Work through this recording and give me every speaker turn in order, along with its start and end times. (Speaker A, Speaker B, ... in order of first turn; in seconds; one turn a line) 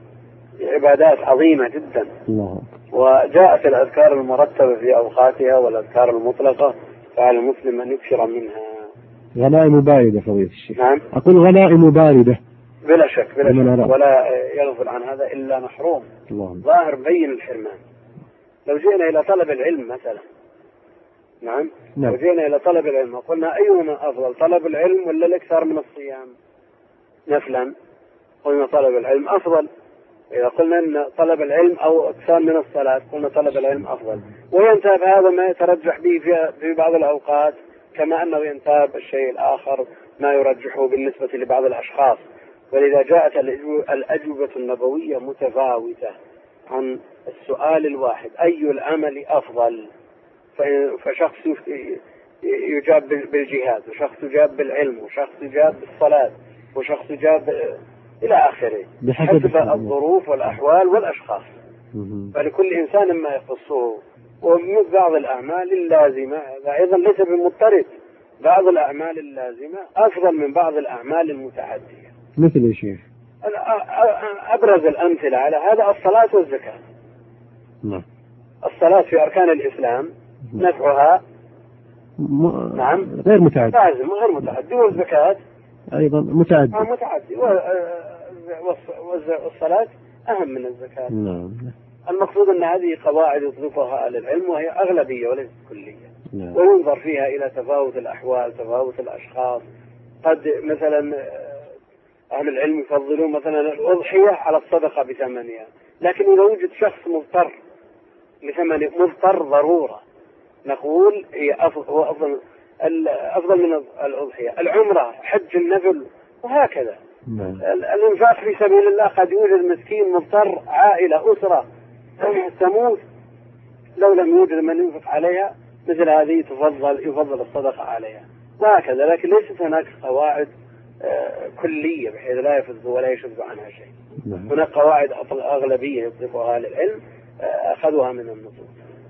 Speaker A: 0.6-2.1
Speaker B: 2.3-2.7
Speaker A: 2.9-8.9
Speaker B: 9.3-12.4
Speaker A: 10.8-11.0
Speaker A: 12.8-16.1
Speaker B: 13.4-13.9
Speaker B: 16.3-16.6
Speaker A: 16.6-17.8
Speaker A: 18.6-20.2
Speaker A: 21.4-26.3
Speaker A: 27.3-27.7
Speaker A: 28.4-29.7
Speaker A: 30.3-46.1
Speaker A: 46.7-49.9
Speaker A: 50.5-61.5
Speaker B: 59.0-59.9
Speaker B: 61.9-62.3
Speaker A: 62.3-67.9
Speaker A: 68.4-72.1
Speaker B: 72.4-73.0
Speaker A: 73.4-76.8
Speaker A: 78.6-81.2
Speaker B: 82.2-83.8
Speaker A: 82.7-83.2
Speaker A: 83.7-85.4
Speaker B: 85.9-86.9
Speaker A: 86.7-91.1
Speaker B: 91.1-91.7
Speaker A: 92.1-99.6
Speaker B: 96.3-96.6
Speaker A: 100.2-101.7
Speaker A: 102.3-107.5
Speaker A: 108.4-110.0
Speaker A: 110.6-117.0
Speaker B: 117.3-117.6
Speaker A: 117.6-121.7
Speaker A: 122.2-123.0
Speaker A: 124.0-133.9
Speaker B: 134.2-134.5
Speaker A: 134.5-138.8